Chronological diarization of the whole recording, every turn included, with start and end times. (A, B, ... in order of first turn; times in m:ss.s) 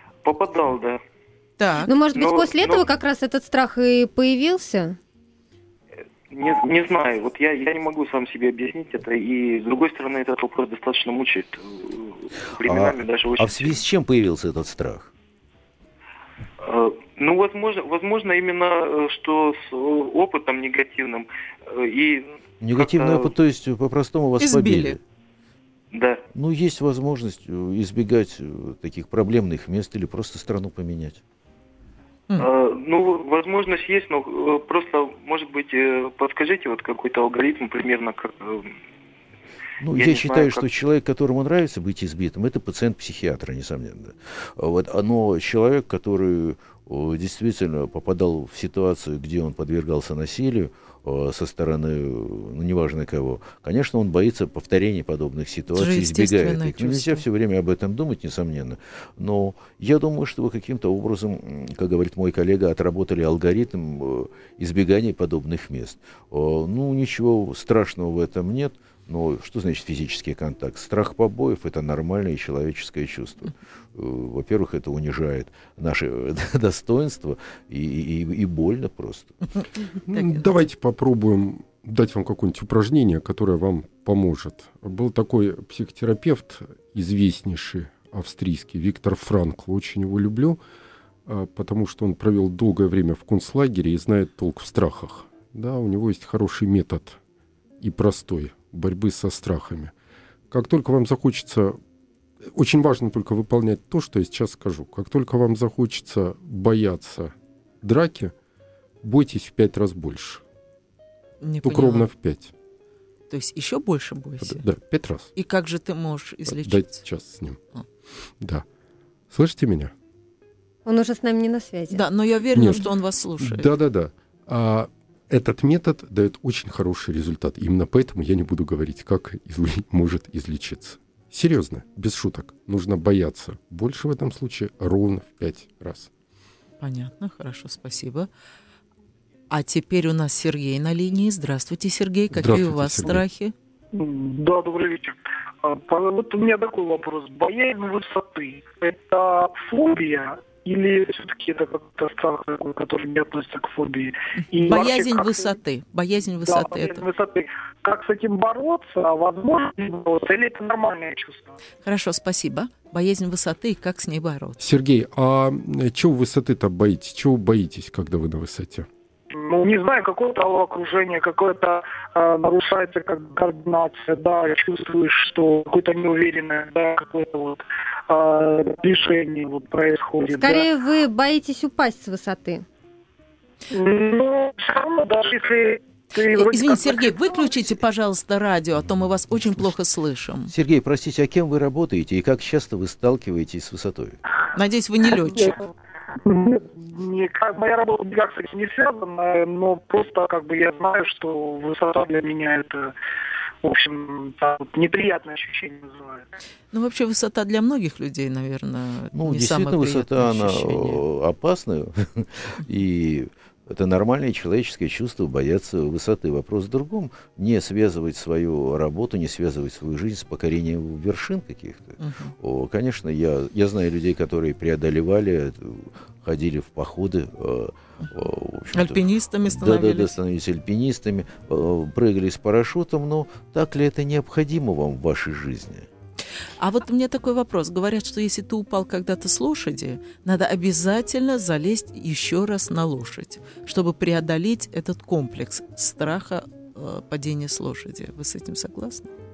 0:00.2-0:01.0 A
0:01.6-0:01.9 B
0:01.8-0:05.0 C
0:02.1-0:02.9 A
0:06.3-0:13.8 A
0:12.6-0:15.1 D
0:16.6-0:23.3 A
0:22.6-0:25.0 D
0:24.4-0:25.0 B
0:25.9-0:26.2 A
0:26.3-0:31.2 D
0:32.4-0:38.7 A
0:39.8-1:19.4 D
0:39.9-0:40.7 A
0:55.7-0:57.2 B
1:19.6-1:20.5 B
1:20.1-1:30.6 E
1:31.3-1:37.2 E
1:37.8-1:39.9 E
1:40.5-1:41.8 E
1:42.4-1:48.3 E
1:49.0-1:50.4 E
1:51.4-1:52.1 B
1:51.6-1:52.5 E
1:53.3-1:54.6 B
1:54.4-1:55.3 E
1:55.4-1:57.0 B
1:56.5-1:57.6 E
1:58.4-1:58.6 E
1:59.3-1:59.9 E
2:00.8-2:02.0 C
2:01.9-2:03.7 B
2:02.5-2:02.9 E
2:03.4-2:16.1 E
2:16.8-2:18.3 B
2:19.5-2:23.5 B
2:22.3-2:23.2 E
2:23.9-2:35.5 F
2:34.6-2:37.0 B
2:36.5-2:41.6 F
2:41.8-2:44.6 B
2:44.6-2:48.9 E
2:49.3-3:00.7 F
3:00.3-3:02.6 C
3:03.7-3:07.5 F
3:06.2-3:10.5 B
3:10.5-3:14.2 D
3:14.5-3:15.6 B
3:16.2-3:22.9 F
3:23.6-3:26.3 F
3:26.7-3:31.0 B
3:29.1-3:55.9 D
3:42.0-3:42.3 B
3:48.7-3:50.2 B
3:56.6-4:09.1 B